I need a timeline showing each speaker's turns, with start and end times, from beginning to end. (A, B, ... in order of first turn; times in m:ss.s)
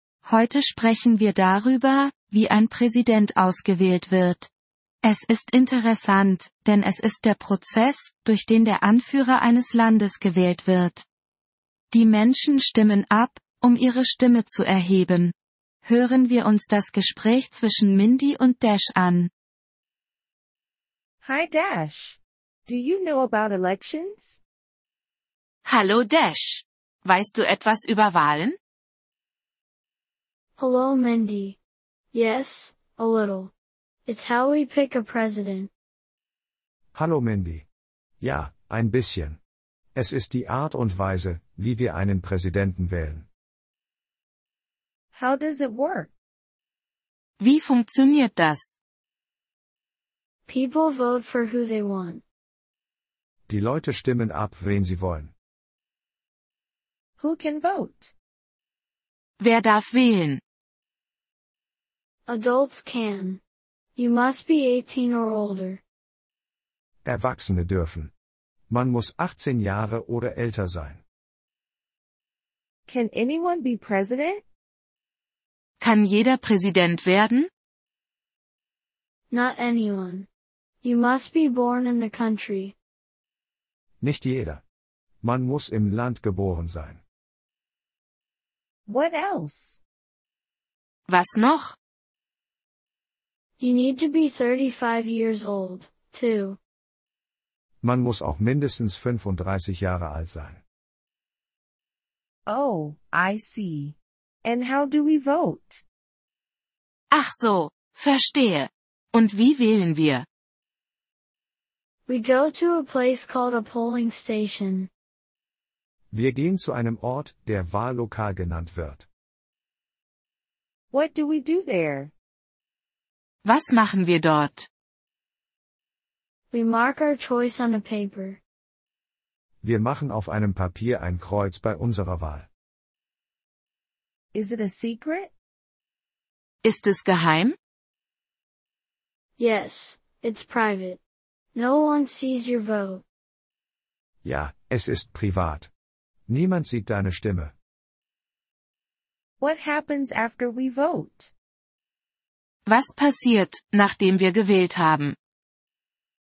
0:00.2-0:04.5 A
0:05.0-0:11.0 A
0:11.9-0:15.3 A
0:15.8-0:19.3 A
0:21.2-0:24.4 B
0:25.6-0:28.6 C
0:30.6-0:31.6 D
0:32.1-0:33.5 D
0:34.0-0:35.7 D
0:36.9-0:37.6 E
0:38.2-0:39.4 E
0:39.9-0:43.2 E
0:45.1-0:46.1 B
0:47.4-0:48.7 C
0:50.5-0:52.2 D
0:53.5-0:55.3 E
0:57.2-0:58.1 B
0:59.4-1:00.4 C
1:02.3-1:03.4 D
1:04.0-1:05.8 D
1:07.0-1:08.1 E
1:08.7-1:11.0 E
1:12.9-1:14.4 B
1:15.8-1:17.5 C
1:19.3-1:20.3 D
1:20.8-1:22.8 D
1:24.0-1:24.6 E
1:25.2-1:27.0 E
1:28.9-1:29.8 B
1:31.1-1:31.8 C
1:33.6-1:36.6 D
1:37.8-1:40.6 E
1:42.5-1:45.8 B
1:47.1-1:50.2 C
1:52.1-1:54.9 D
1:56.1-1:59.1 E
2:00.9-2:02.1 B
2:03.4-2:04.7 C
2:06.5-2:08.4 D
2:09.6-2:12.5 E
2:14.3-2:15.3 B
2:16.6-2:17.5 C
2:19.4-2:21.0 D
2:21.5-2:23.0 D
2:24.2-2:25.7 E
2:26.3-2:27.5 E
2:29.4-2:31.3 B
2:32.7-2:35.2 C